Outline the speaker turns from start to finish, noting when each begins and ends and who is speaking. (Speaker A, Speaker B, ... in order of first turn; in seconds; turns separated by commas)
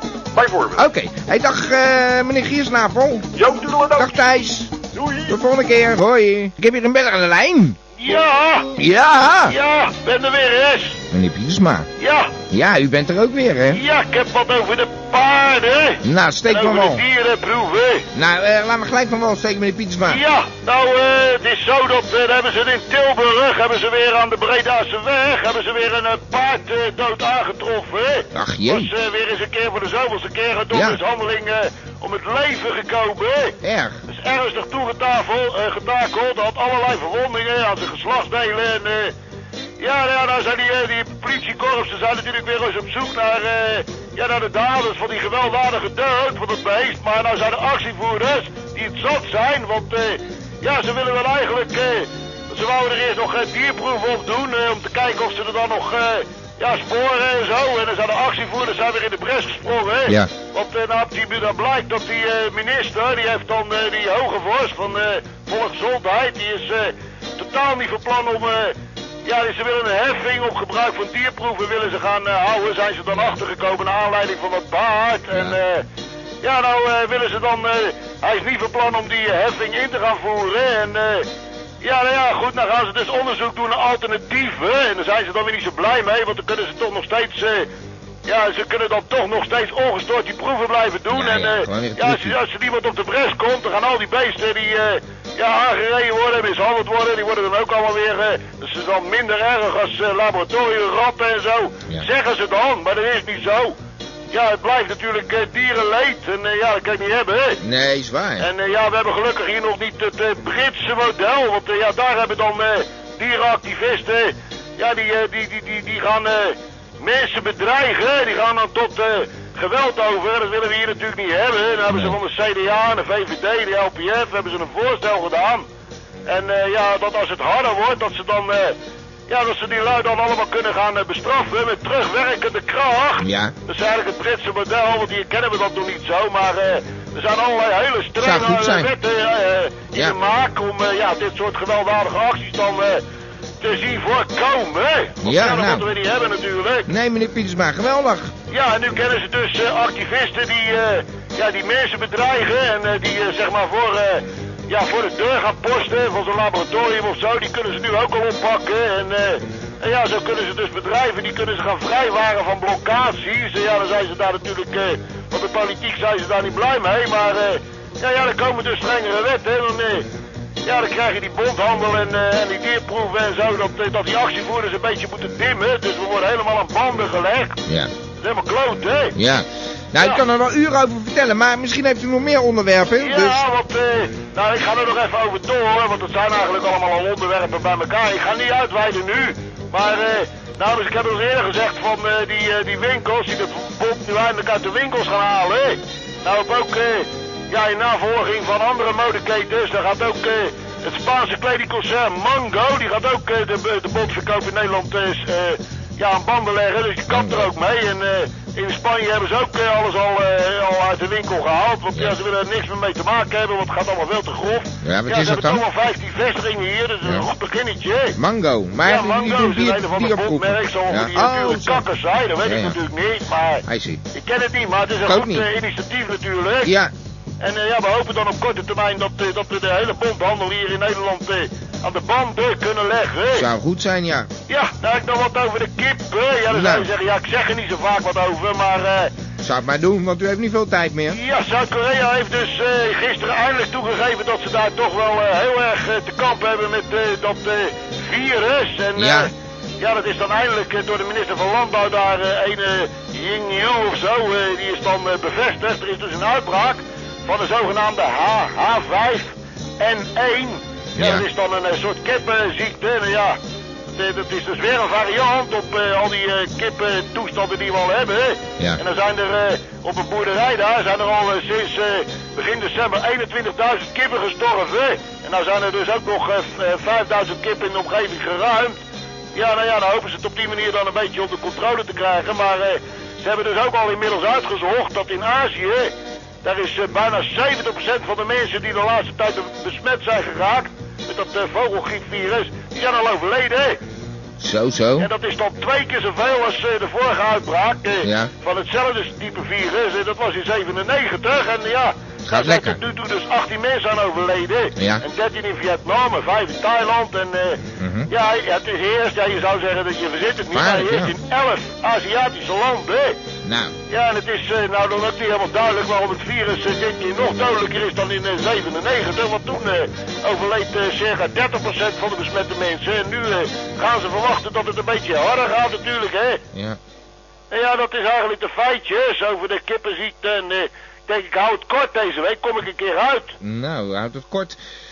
Speaker A: 0.3-0.8, Speaker B: 0.8-3.3, Speaker A: 3.4-4.2, Speaker B: 4.0-4.7, Speaker A: 4.9-5.4, Speaker B: 5.3-7.8, Speaker C: 8.0-8.7, Speaker B: 8.8-9.6, Speaker C: 9.5-11.0, Speaker B: 11.1-11.9, Speaker C: 12.0-12.3, Speaker B: 12.5-13.8, Speaker C: 13.7-18.1, Speaker B: 16.0-17.0, Speaker B: 18.1-20.2, Speaker C: 20.1-33.5, Speaker B: 28.3-28.9, Speaker B: 30.7-31.0, Speaker B: 33.6-34.0, Speaker C: 34.1-39.1, Speaker C: 39.8-75.8, Speaker B: 73.1-73.4, Speaker B: 75.3-75.6, Speaker C: 76.4-81.3, Speaker C: 81.8-87.7, Speaker C: 88.3-103.8, Speaker B: 91.1-92.4, Speaker C: 104.3-107.6, Speaker B: 107.6-108.5, Speaker C: 108.4-125.7, Speaker B: 121.9-122.2, Speaker C: 126.3-128.8, Speaker C: 129.3-143.0, Speaker B: 133.2-133.5, Speaker B: 138.2-138.9, Speaker C: 143.6-146.9, Speaker B: 145.2-145.9, Speaker B: 146.9-148.3, Speaker C: 148.5-170.1, Speaker C: 170.7-177.6, Speaker B: 177.7-177.9, Speaker C: 178.2-179.2, Speaker B: 179.2-183.4, Speaker C: 183.0-218.2, Speaker B: 207.1-207.5, Speaker B: 214.8-215.6, Speaker B: 217.0-217.3, Speaker B: 218.2-221.9, Speaker C: 218.8-226.7, Speaker B: 222.4-222.8, Speaker B: 223.7-224.0, Speaker B: 225.1-225.5, Speaker B: 226.6-226.9, Speaker C: 227.4-233.5, Speaker B: 233.3-234.3, Speaker C: 234.5-239.1, Speaker B: 236.5-236.9, Speaker B: 239.4-241.2, Speaker C: 241.1-263.4, Speaker B: 249.0-249.3, Speaker B: 261.0-261.3, Speaker C: 263.9-278.8, Speaker C: 279.4-285.9, Speaker C: 286.4-293.8, Speaker B: 294.4-295.1, Speaker C: 295.0-313.2, Speaker B: 298.0-298.3, Speaker B: 302.3-302.8, Speaker B: 304.8-305.0, Speaker B: 307.8-308.1, Speaker B: 310.5-311.1, Speaker B: 313.4-313.8, Speaker C: 313.9-326.4, Speaker B: 326.5-326.8, Speaker C: 327.5-333.3, Speaker B: 333.4-334.6